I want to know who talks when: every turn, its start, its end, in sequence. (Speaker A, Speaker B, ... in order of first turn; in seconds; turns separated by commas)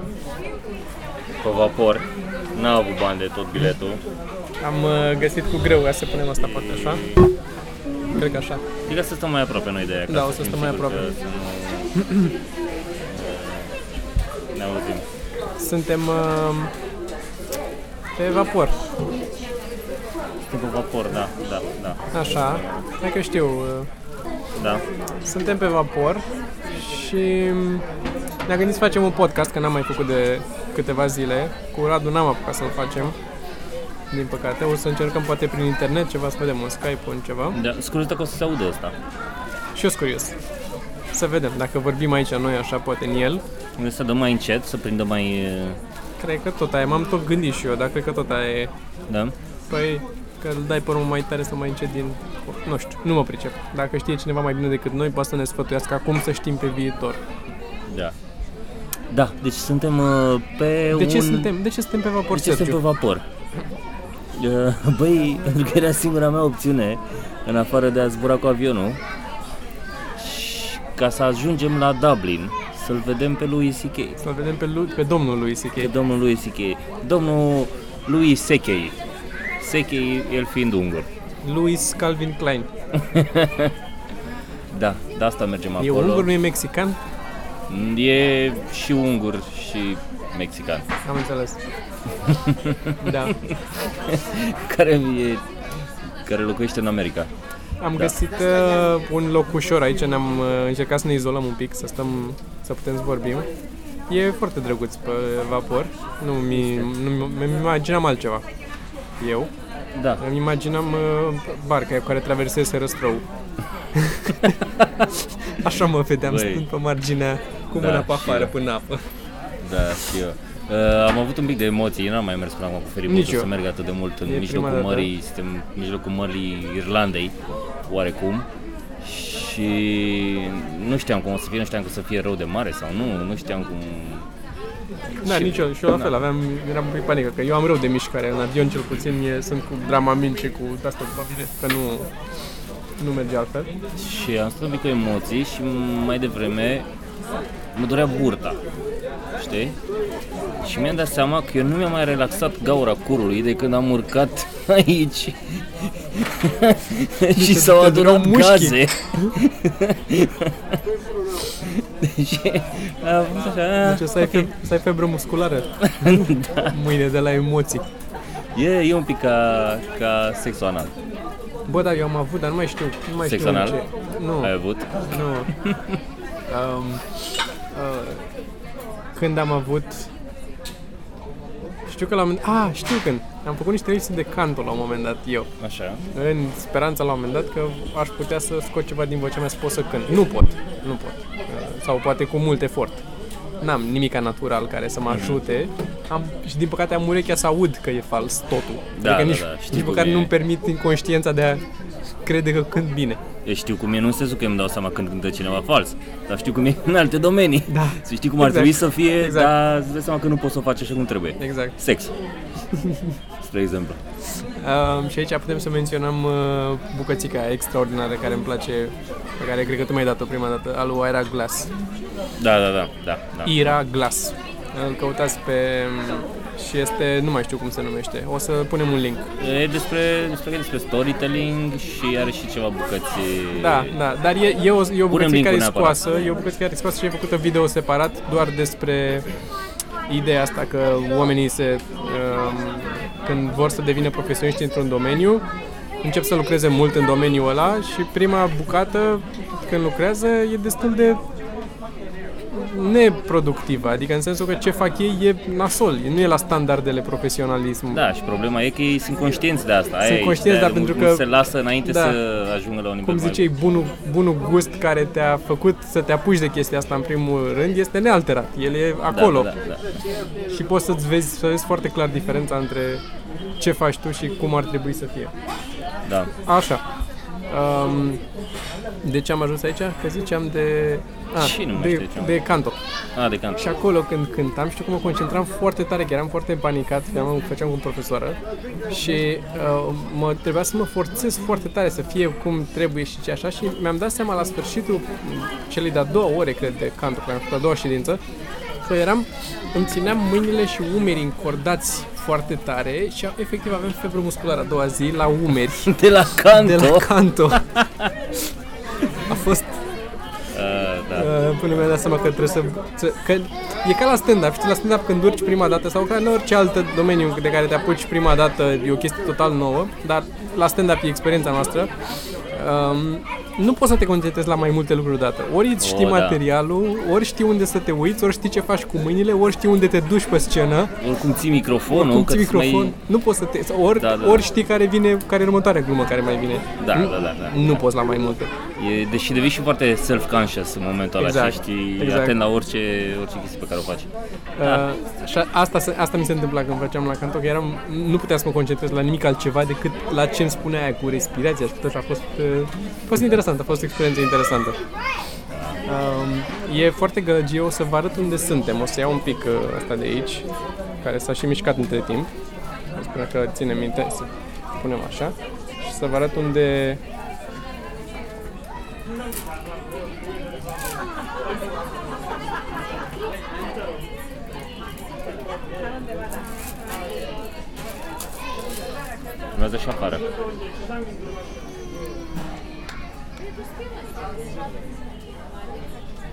Speaker A: 1.4-4.0, Speaker B: 4.6-7.2, Speaker A: 6.7-7.2, Speaker B: 8.1-8.6, Speaker A: 8.9-12.0, Speaker B: 10.1-11.1, Speaker B: 12.0-12.3, Speaker A: 13.1-13.8, Speaker A: 14.5-15.1, Speaker B: 15.6-16.7, Speaker B: 18.2-18.8, Speaker A: 20.5-22.9, Speaker B: 22.1-23.9, Speaker A: 24.6-24.8, Speaker B: 25.2-27.9, Speaker B: 28.5-33.2, Speaker B: 34.1-37.6, Speaker A: 37.5-39.0, Speaker B: 39.8-40.4, Speaker B: 41.1-43.4, Speaker A: 43.8-45.8, Speaker B: 46.2-48.7, Speaker A: 49.1-49.4, Speaker B: 49.7-57.2, Speaker A: 57.9-58.1, Speaker A: 59.1-61.5, Speaker B: 60.9-62.8, Speaker A: 62.3-63.3, Speaker A: 64.3-69.0, Speaker A: 70.2-74.2, Speaker B: 74.2-75.9, Speaker A: 75.8-79.0, Speaker A: 79.6-81.1, Speaker B: 81.4-82.7, Speaker A: 83.0-83.7, Speaker A: 84.7-86.3, Speaker B: 85.8-87.0, Speaker A: 87.7-90.9, Speaker B: 91.0-91.6, Speaker A: 92.2-95.5, Speaker B: 93.0-93.4, Speaker A: 96.2-97.3, Speaker B: 97.8-103.5, Speaker B: 104.1-108.4, Speaker B: 109.2-109.5, Speaker A: 109.9-110.2, Speaker B: 110.2-113.2, Speaker B: 114.0-114.6, Speaker B: 115.5-119.0, Speaker A: 116.2-116.7, Speaker A: 117.7-118.5, Speaker A: 119.6-127.4, Speaker B: 123.1-123.5, Speaker B: 124.2-125.1, Speaker A: 127.9-128.5, Speaker A: 129.0-134.3, Speaker A: 135.2-136.1, Speaker B: 135.2-142.1, Speaker B: 143.0-143.7, Speaker A: 144.0-146.9, Speaker A: 147.7-148.6, Speaker A: 149.4-149.8, Speaker A: 150.6-160.8, Speaker B: 157.3-158.9, Speaker A: 161.4-164.5, Speaker B: 163.8-167.8, Speaker A: 165.8-166.7, Speaker A: 168.6-170.9, Speaker B: 171.7-174.5, Speaker A: 173.2-173.8, Speaker A: 174.4-175.8, Speaker B: 175.1-175.5, Speaker B: 176.5-177.1, Speaker B: 177.7-178.3, Speaker B: 179.2-180.1, Speaker B: 181.9-185.5, Speaker A: 185.6-186.1, Speaker B: 186.1-193.0, Speaker B: 193.6-201.6, Speaker A: 195.1-195.4, Speaker A: 198.9-200.3, Speaker B: 202.2-203.2, Speaker A: 203.4-212.1, Speaker B: 207.7-209.5, Speaker B: 211.4-211.8, Speaker B: 212.7-213.1, Speaker A: 213.4-214.0, Speaker B: 214.6-221.7, Speaker A: 222.4-223.8, Speaker B: 223.5-229.3, Speaker A: 229.4-234.0, Speaker B: 233.6-239.3, Speaker A: 235.1-236.0, Speaker B: 240.1-245.4, Speaker B: 246.0-251.2, Speaker B: 252.5-258.0, Speaker A: 257.9-263.5, Speaker B: 260.0-261.3, Speaker B: 261.9-262.2, Speaker B: 263.0-269.5, Speaker A: 269.1-270.0, Speaker B: 270.5-273.0, Speaker B: 273.6-275.3, Speaker A: 276.1-276.3, Speaker B: 276.4-276.8, Speaker B: 277.5-278.2, Speaker B: 279.0-282.8, Speaker A: 281.4-282.4, Speaker A: 283.2-283.7, Speaker B: 283.6-288.4, Speaker B: 288.9-298.2, Speaker B: 298.8-307.6, Speaker A: 305.8-308.1, Speaker B: 309.2-309.7, Speaker A: 310.5-311.3, Speaker B: 311.1-321.9, Speaker B: 322.5-330.9, Speaker A: 325.8-326.4, Speaker A: 331.0-333.0, Speaker B: 331.9-338.5, Speaker A: 333.9-334.5, Speaker A: 336.8-337.8, Speaker A: 338.8-344.1, Speaker B: 341.2-342.4, Speaker B: 344.6-354.8, Speaker A: 355.5-355.8, Speaker B: 355.9-360.5, Speaker B: 361.0-362.3, Speaker B: 362.9-367.0, Speaker A: 379.5-380.2